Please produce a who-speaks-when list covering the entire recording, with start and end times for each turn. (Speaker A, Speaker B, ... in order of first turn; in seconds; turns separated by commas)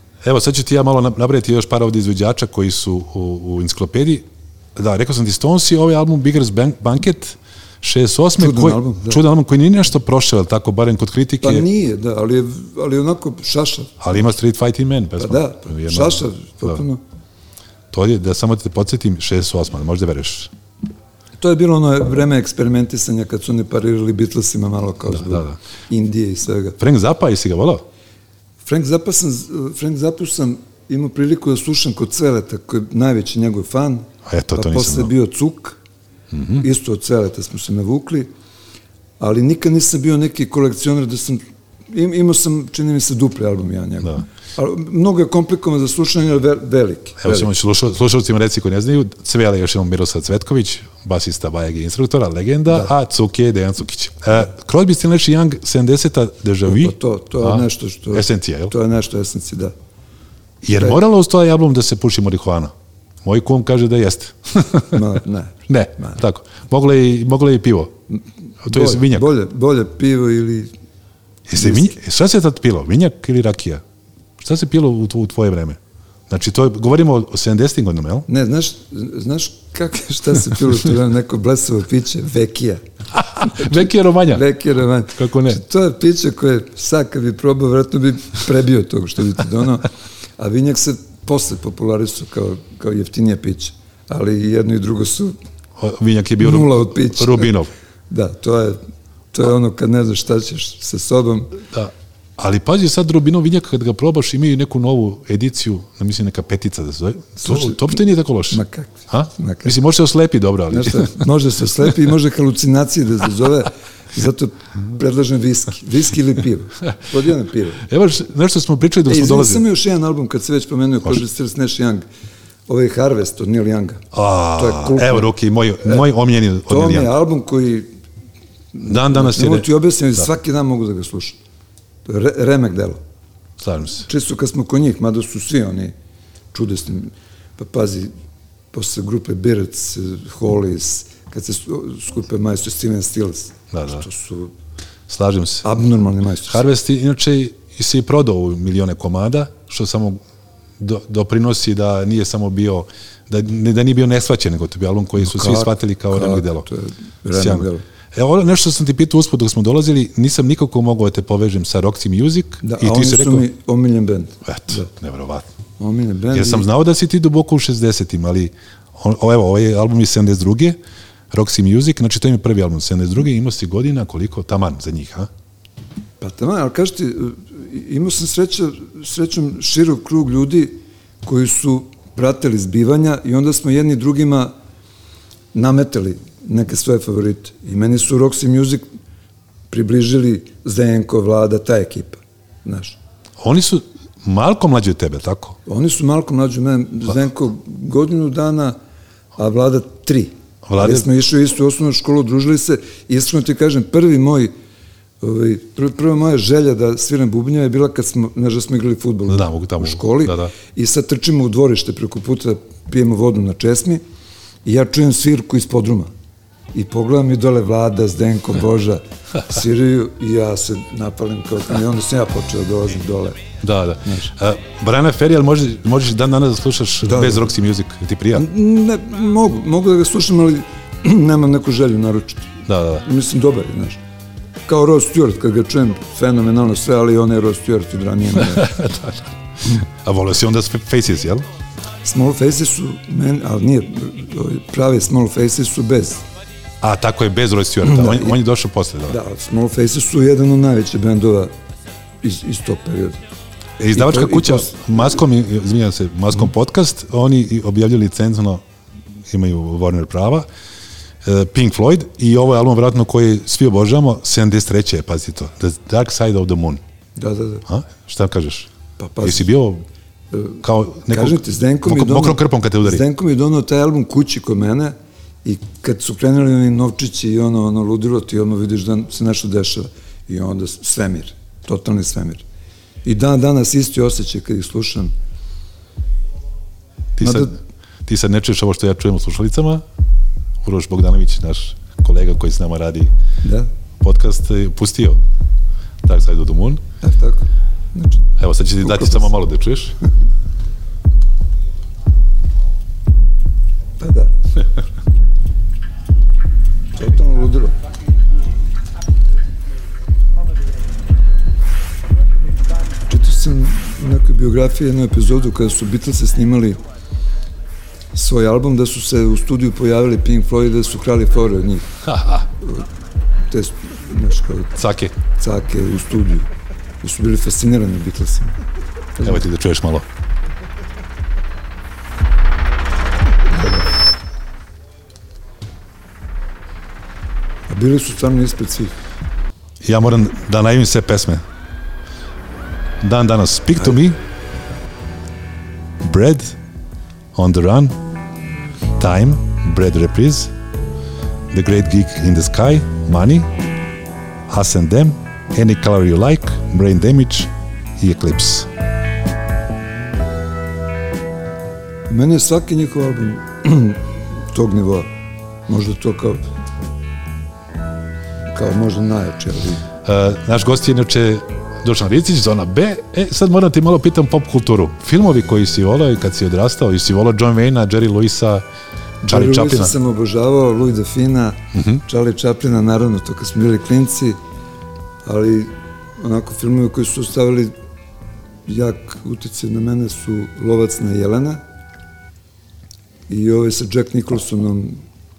Speaker A: 0.2-11.7, Speaker B: 8.4-9.2, Speaker B: 11.4-14.0, Speaker A: 14.0-16.8, Speaker B: 15.2-17.0, Speaker A: 17.9-20.5, Speaker B: 21.4-26.8, Speaker A: 25.1-25.6, Speaker A: 26.8-27.8, Speaker B: 28.6-35.8, Speaker A: 34.2-35.1, Speaker A: 36.3-36.6, Speaker B: 36.5-38.3, Speaker B: 39.2-47.5, Speaker A: 47.2-58.7, Speaker B: 56.6-59.7, Speaker A: 60.6-65.0, Speaker B: 60.7-61.0, Speaker B: 64.9-66.2, Speaker A: 65.7-67.9, Speaker A: 68.6-69.3, Speaker B: 68.6-70.7, Speaker A: 71.5-73.8, Speaker B: 71.6-71.9, Speaker A: 74.4-78.3, Speaker B: 78.3-82.8, Speaker A: 83.1-84.4, Speaker B: 83.4-95.3, Speaker A: 85.2-85.6, Speaker A: 95.8-97.7, Speaker B: 96.4-97.5, Speaker B: 98.1-98.8, Speaker B: 99.3-101.6, Speaker A: 101.7-111.2, Speaker B: 107.4-109.7, Speaker B: 110.7-117.8, Speaker A: 117.8-119.6, Speaker B: 119.0-122.0, Speaker B: 122.7-125.3, Speaker A: 124.1-127.1, Speaker B: 126.7-127.9, Speaker B: 128.7-131.4, Speaker A: 128.8-129.7, Speaker B: 132.1-133.0, Speaker A: 133.6-134.1, Speaker B: 134.0-135.9, Speaker B: 136.5-138.1, Speaker B: 138.7-144.5, Speaker A: 143.7-144.0, Speaker A: 145.1-145.7, Speaker B: 145.6-146.6, Speaker A: 146.5-150.2, Speaker A: 150.8-156.7, Speaker B: 155.2-157.8, Speaker A: 157.3-163.5, Speaker B: 162.6-164.9, Speaker A: 164.4-165.5, Speaker B: 165.8-166.7, Speaker A: 166.3-170.8, Speaker A: 171.3-175.3, Speaker B: 176.2-184.5, Speaker B: 185.5-188.8, Speaker B: 189.7-193.0, Speaker A: 193.4-195.6, Speaker B: 195.7-198.8, Speaker B: 199.4-204.5, Speaker A: 200.7-201.1, Speaker B: 205.2-214.0, Speaker A: 209.3-210.5, Speaker B: 214.6-216.1, Speaker B: 216.7-223.5, Speaker A: 223.6-228.5, Speaker B: 224.0-224.3, Speaker B: 227.1-227.5, Speaker B: 228.3-234.0, Speaker A: 232.7-233.0, Speaker B: 234.7-238.8, Speaker A: 238.5-241.4, Speaker B: 242.0-246.2, Speaker A: 246.8-249.2, Speaker B: 247.8-248.3, Speaker B: 249.1-251.5, Speaker B: 252.2-253.2, Speaker A: 253.8-258.6, Speaker B: 253.9-255.2, Speaker A: 259.3-260.5, Speaker A: 261.2-266.8, Speaker B: 267.1-267.6, Speaker A: 267.6-268.7, Speaker B: 269.0-269.5, Speaker A: 269.2-269.8, Speaker B: 270.3-282.4, Speaker A: 270.6-273.0, Speaker B: 283.0-285.1, Speaker A: 287.2-287.5, Speaker B: 287.2-287.5, Speaker A: 288.0-289.8, Speaker A: 290.6-293.1, Speaker B: 293.4-293.7, Speaker A: 294.0-295.2, Speaker A: 296.0-296.8, Speaker B: 297.0-298.3, Speaker A: 298.4-299.9, Speaker B: 298.8-299.2, Speaker B: 304.0-304.3, Speaker B: 306.9-307.7, Speaker B: 313.1-316.8, Speaker B: 318.1-322.0, Speaker A: 322.1-322.4, Speaker B: 322.6-322.9, Speaker B: 323.5-326.5, Speaker A: 324.7-325.1, Speaker B: 327.0-328.6, Speaker B: 329.2-329.4, Speaker A: 329.2-330.0, Speaker B: 333.5-333.8, Speaker B: 337.7-338.9, Speaker A: 339.8-341.4, Speaker A: 343.0-344.2, Speaker A: 346.0-346.6, Speaker A: 347.3-348.0, Speaker A: 349.0-350.5, Speaker A: 351.5-353.5, Speaker A: 354.5-358.7, Speaker B: 362.1-365.1, Speaker B: 365.7-366.4, Speaker B: 368.5-369.8, Speaker A: 370.0-378.6, Speaker B: 379.2-384.4, Speaker A: 379.3-379.9, Speaker A: 381.7-382.0, Speaker B: 385.2-387.8, Speaker B: 388.7-391.6, Speaker B: 393.3-395.0